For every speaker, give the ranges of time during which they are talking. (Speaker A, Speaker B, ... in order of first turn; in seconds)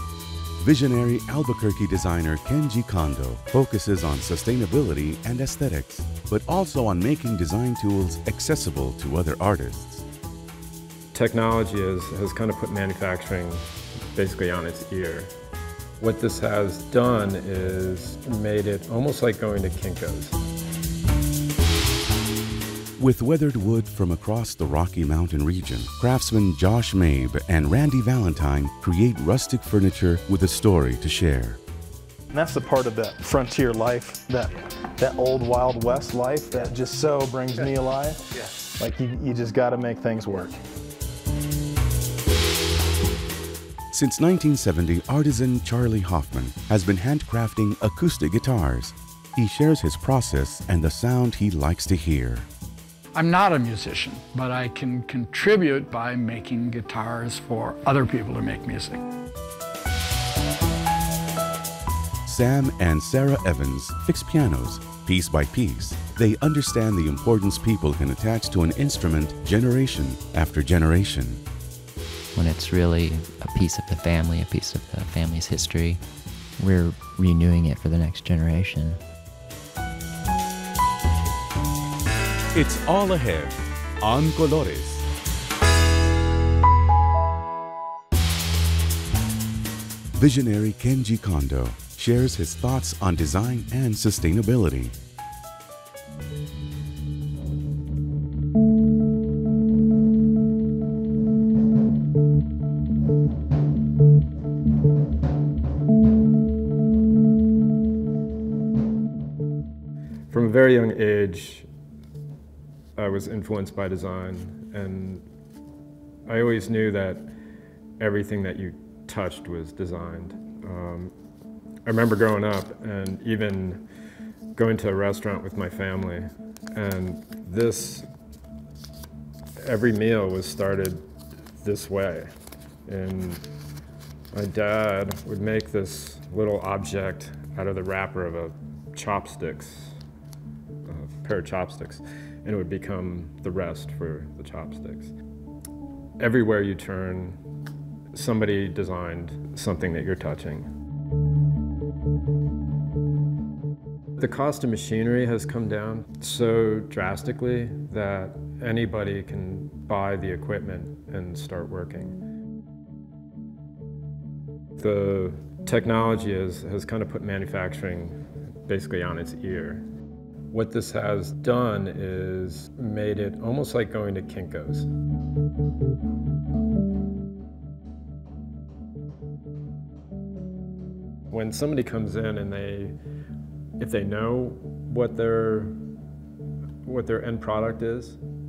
Speaker A: 0.6-10.0, 23.0-31.6, 43.9-52.5, 62.2-71.4, 82.5-85.0, 90.2-94.9
Speaker B: 11.1-15.3, 16.0-20.4, 110.3-111.7, 113.0-115.2, 116.2-117.3, 118.0-121.1, 121.8-123.8, 124.5-128.1, 129.6-131.0, 131.6-132.3, 132.9-133.4, 134.3-140.0, 140.9-145.1, 146.2-147.4, 148.1-150.7, 154.2-162.2, 164.8-169.9, 170.5-174.9, 181.3-183.0, 183.8-185.8, 186.8-188.2
Speaker C: 32.3-38.3, 38.8-40.6
Speaker D: 53.1-59.0
Speaker E: 72.3-76.0, 76.6-79.0